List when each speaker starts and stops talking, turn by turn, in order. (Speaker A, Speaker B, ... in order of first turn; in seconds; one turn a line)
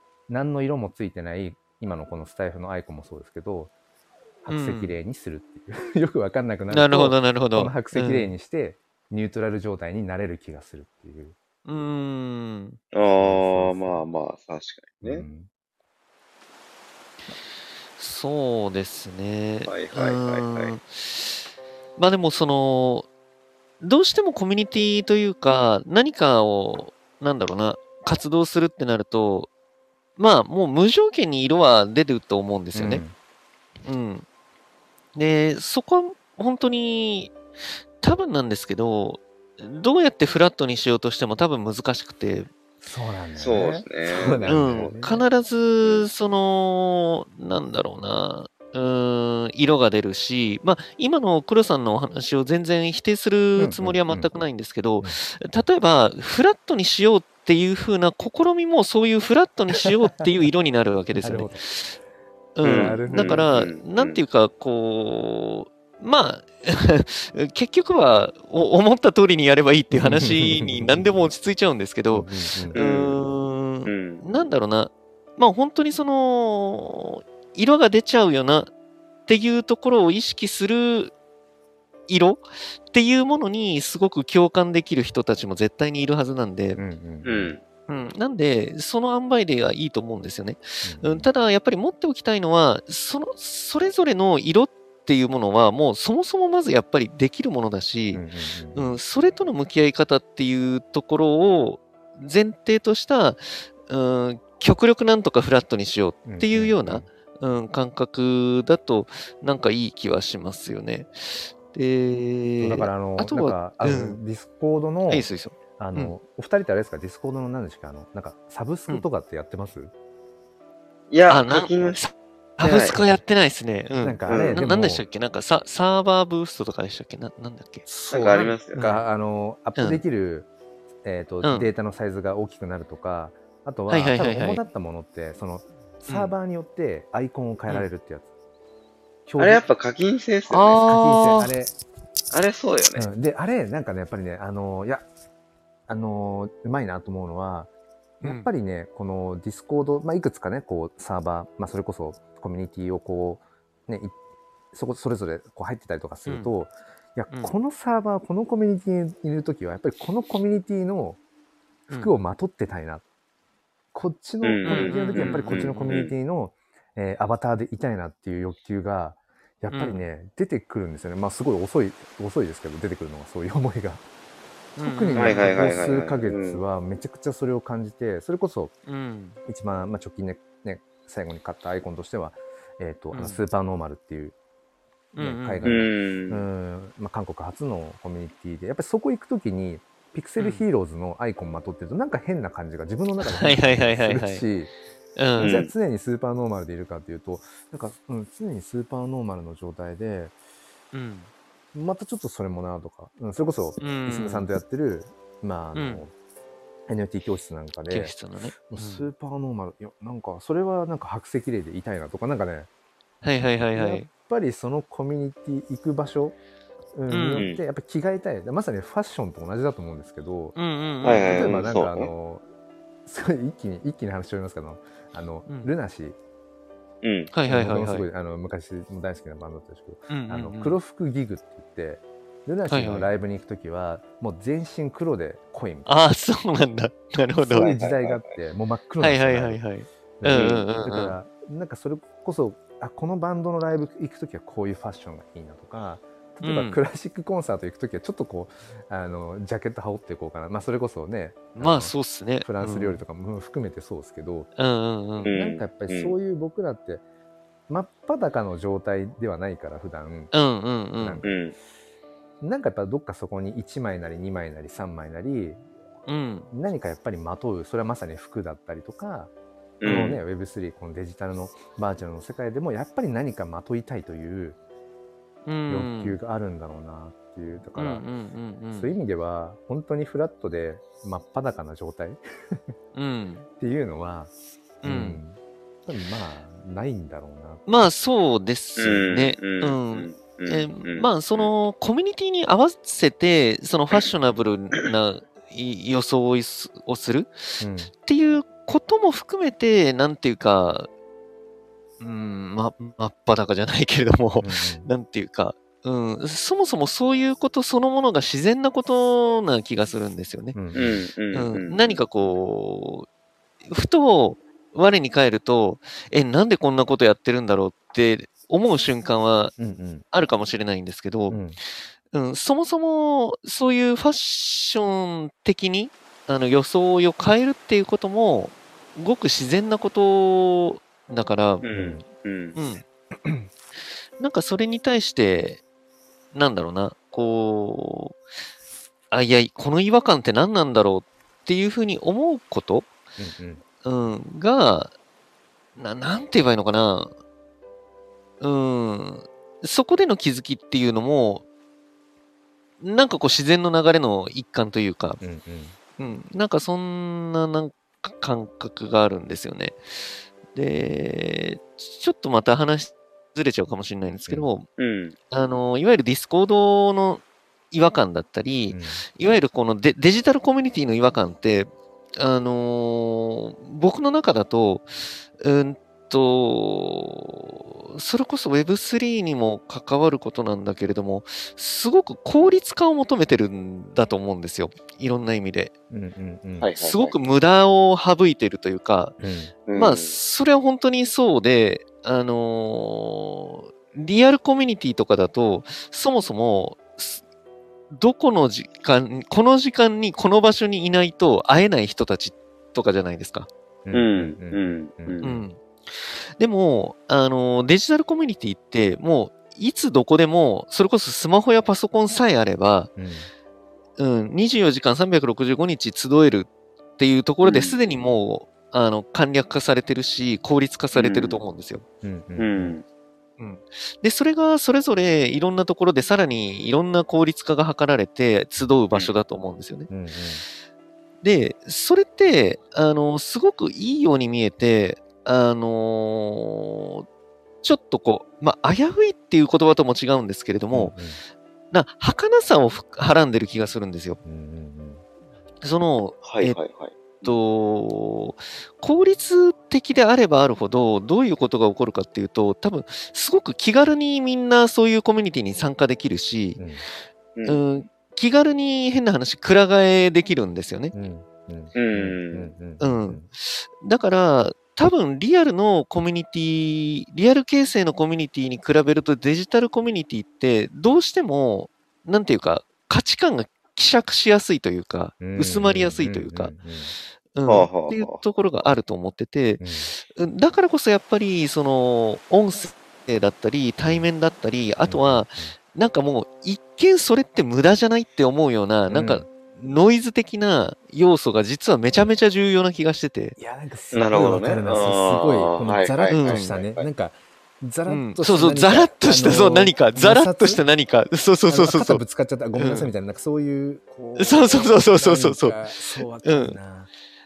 Speaker A: 0.3-3.7
Speaker A: 4.4-11.3
Speaker B: 4.5-4.9
Speaker B: 6.7-8.3
Speaker B: 11.6-12.8
Speaker C: 12.9-15.2
Speaker A: 13.2-14.0
Speaker A: 15.0-15.5
Speaker B: 18.0-21.4
Speaker C: 19.7-20.7
Speaker B: 22.0-23.1
Speaker B: 23.8-29.5
Speaker B: 30.2-33.0
Speaker A: 32.7-33.1
Speaker B: 33.8-34.2
Speaker B: 35.1-37.4
Speaker B: 38.0-42.5
Speaker A: 42.8-45.2
Speaker C: 43.4-45.0
Speaker B: 44.5-61.9
Speaker A: 53.6-54.3
Speaker A: 61.1-61.6
Speaker B: 62.5-78.7
Speaker C: 62.6-64.2
Speaker A: 62.6-63.5
Speaker A: 69.9-71.0
Speaker A: 72.1-72.8
Speaker C: 72.7-73.3
Speaker C: 73.8-74.2
Speaker B: 79.3-81.1
Speaker B: 82.1-86.8
Speaker A: 86.8-87.5
Speaker C: 87.2-87.6
Speaker B: 87.9-98.2
Speaker A: 90.8-91.3
Speaker A: 98.1-99.0
Speaker B: 98.7-114.2
Speaker A: 106.2-107.1
Speaker A: 112.6-119.9
Speaker B: 115.1-116.1
Speaker C: 121.1-122.0
Speaker B: 121.3-127.9
Speaker C: 122.6-123.0
Speaker A: 124.0-125.0
Speaker C: 124.3-124.6
Speaker A: 127.8-130.5
Speaker C: 128.1-128.8
Speaker B: 128.7-129.0
Speaker B: 129.8-130.0
Speaker A: 131.0-138.3
Speaker B: 131.4-131.7
Speaker B: 133.9-134.6
Speaker B: 136.1-136.3
Speaker A: 139.3-139.6
Speaker C: 139.4-140.8
Speaker B: 140.5-141.5
Speaker A: 140.8-141.7
Speaker C: 142.3-143.1
Speaker A: 142.9-145.0
Speaker A: 145.9-147.7
Speaker B: 148.2-148.5
Speaker A: 148.2-154.1
Speaker A: 154.7-161.2
Speaker B: 156.2-156.5
Speaker A: 161.9-163.0
Speaker A: 163.9-174.0
Speaker C: 164.4-166.1
Speaker B: 164.7-166.1
Speaker B: 169.7-170.0
Speaker B: 174.8-175.6
Speaker A: 174.8-178.7
Speaker C: 175.2-176.6
Speaker B: 178.8-179.4
Speaker A: 179.4-184.3
Speaker B: 183.1-183.4
Speaker B: 185.1-185.8
Speaker A: 185.2-194.7
Speaker C: 185.6-186.4
Speaker B: 190.4-190.7
Speaker B: 193.2-194.4
Speaker B: 195.2-195.6
Speaker A: 195.4-200.3
Speaker C: 195.4-195.7
Speaker B: 200.9-201.3
Speaker A: 201.7-206.1
Speaker B: 203.8-204.5
Speaker B: 205.7-206.0
Speaker A: 206.9-208.2
Speaker B: 207.9-209.1
Speaker A: 208.7-212.7
Speaker B: 213.2-214.1
Speaker A: 213.6-216.4
Speaker A: 216.9-220.6
Speaker B: 217.1-217.5
Speaker C: 217.3-217.6
Speaker B: 220.5-221.6
Speaker C: 221.0-222.1
Speaker A: 221.1-222.4
Speaker A: 223.1-226.2
Speaker C: 227.0-227.3
Speaker B: 227.3-228.1
Speaker A: 227.5-235.9
Speaker B: 230.1-230.8
Speaker B: 232.7-233.1
Speaker B: 235.8-237.7
Speaker C: 237.4-238.3
Speaker A: 237.5-239.6
Speaker B: 239.0-241.2
Speaker A: 240.2-254.5
Speaker C: 240.3-240.7
Speaker B: 246.4-246.8
Speaker B: 251.6-253.0
Speaker B: 254.6-255.3
Speaker C: 255.2-256.1
Speaker A: 255.2-257.0
Speaker A: 257.7-260.3
Speaker B: 260.3-261.2
Speaker A: 261.0-261.3
Speaker C: 261.2-261.5
Speaker A: 262.4-265.6
Speaker B: 266.1-266.5
Speaker A: 266.5-269.3
Speaker C: 269.8-270.2
Speaker A: 269.8-274.6
Speaker B: 275.4-276.2
Speaker A: 275.7-278.0
Speaker B: 277.7-278.9
Speaker A: 278.7-282.6
Speaker B: 282.9-283.4
Speaker A: 283.6-284.3
Speaker B: 284.8-285.2
Speaker A: 284.8-287.6
Speaker B: 287.6-300.9
Speaker C: 288.8-291.5
Speaker A: 297.6-297.9
Speaker B: 302.0-310.6
Speaker A: 304.4-304.9
Speaker A: 310.5-311.0
Speaker C: 310.7-312.0
Speaker B: 311.3-313.1
Speaker B: 313.7-319.5
Speaker A: 319.6-320.0
Speaker B: 320.1-321.4
Speaker A: 321.3-321.6
Speaker B: 322.1-331.6
Speaker C: 331.6-332.6
Speaker A: 331.7-332.0
Speaker B: 332.6-332.8
Speaker A: 333.2-333.5
Speaker B: 334.2-335.6
Speaker B: 336.3-338.2
Speaker B: 339.1-342.9
Speaker A: 343.2-343.6
Speaker B: 343.8-344.9
Speaker B: 345.8-347.1
Speaker B: 348.4-351.4
Speaker B: 352.8-355.2
Speaker A: 355.2-355.8
Speaker B: 356.0-359.8
Speaker B: 360.5-364.6
Speaker A: 364.1-364.5
Speaker C: 364.8-365.1
Speaker B: 365.3-385.7
Speaker A: 368.7-369.0
Speaker A: 385.9-386.7
Speaker C: 386.6-387.1
Speaker B: 386.8-389.2
Speaker A: 389.2-389.5
Speaker C: 389.7-390.1
Speaker B: 389.7-397.2
Speaker B: 397.9-403.5
Speaker A: 403.8-405.2
Speaker C: 403.9-405.4
Speaker B: 405.2-412.9
Speaker A: 412.9-413.3
Speaker B: 414.0-421.8
Speaker C: 417.4-417.8
Speaker C: 420.9-421.4
Speaker A: 422.0-422.8
Speaker C: 422.4-422.8
Speaker B: 423.4-429.9
Speaker A: 429.9-430.4
Speaker B: 431.2-437.1
Speaker B: 437.6-440.9
Speaker A: 440.7-441.2
Speaker B: 441.7-444.2
Speaker A: 444.2-445.0
Speaker B: 445.6-446.6
Speaker C: 446.2-447.4
Speaker B: 447.2-456.6
Speaker A: 456.6-456.8
Speaker C: 457.4-457.6
Speaker B: 457.4-460.9
Speaker A: 460.9-463.3
Speaker C: 461.7-462.5
Speaker B: 462.8-476.5
Speaker A: 475.2-476.9
Speaker B: 477.3-493.4
Speaker C: 477.4-478.2
Speaker A: 479.6-479.9
Speaker A: 484.8-485.6
Speaker A: 488.9-489.2
Speaker A: 493.4-500.6
Speaker C: 493.9-496.9
Speaker B: 496.1-496.5
Speaker B: 497.9-502.0
Speaker A: 501.5-506.9
Speaker B: 502.6-502.9
Speaker B: 504.2-505.6
Speaker B: 506.2-506.6